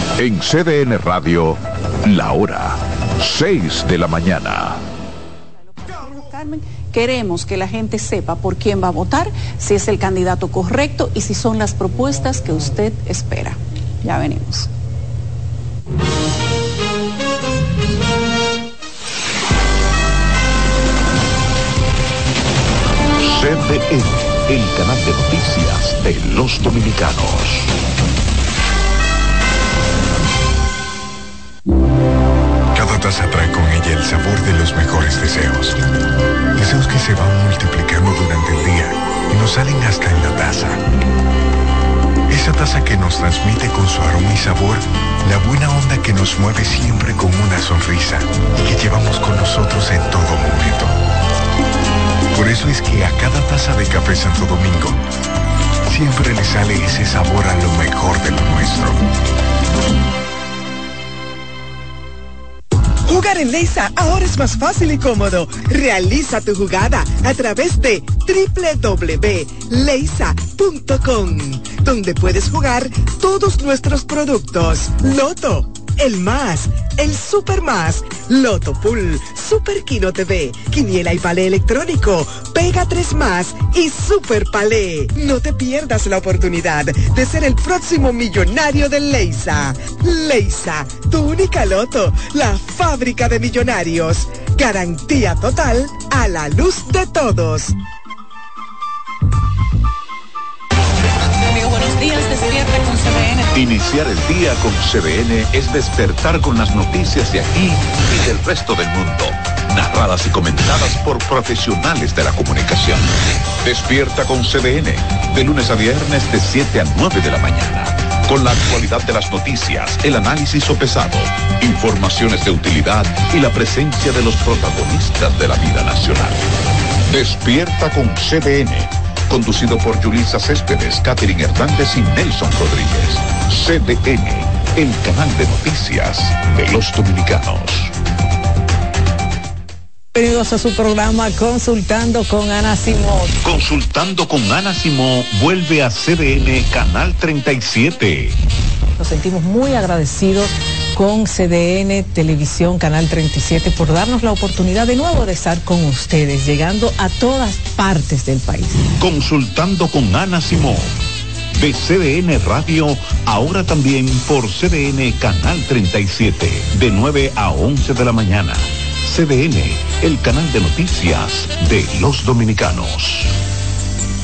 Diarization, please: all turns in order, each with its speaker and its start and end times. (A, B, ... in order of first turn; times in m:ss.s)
0:00.2-0:04.8 A
0:05.8-0:14.7 B
0:23.2-0:27.7 A
0:32.7-0:35.8 C
0:36.5-0:40.8 C
0:42.3-0:51.0 C
0:52.3-0:55.0 C
0:55.9-0:59.0 C
1:03.0-1:37.7 D
1:41.4-1:43.5 B
1:43.5-2:06.4 A
2:07.1-2:17.9 A
2:20.1-2:23.3 E
2:23.4-2:28.4 A
2:29.0-2:38.9 E
2:39.0-2:40.9 A
2:41.6-2:53.3 A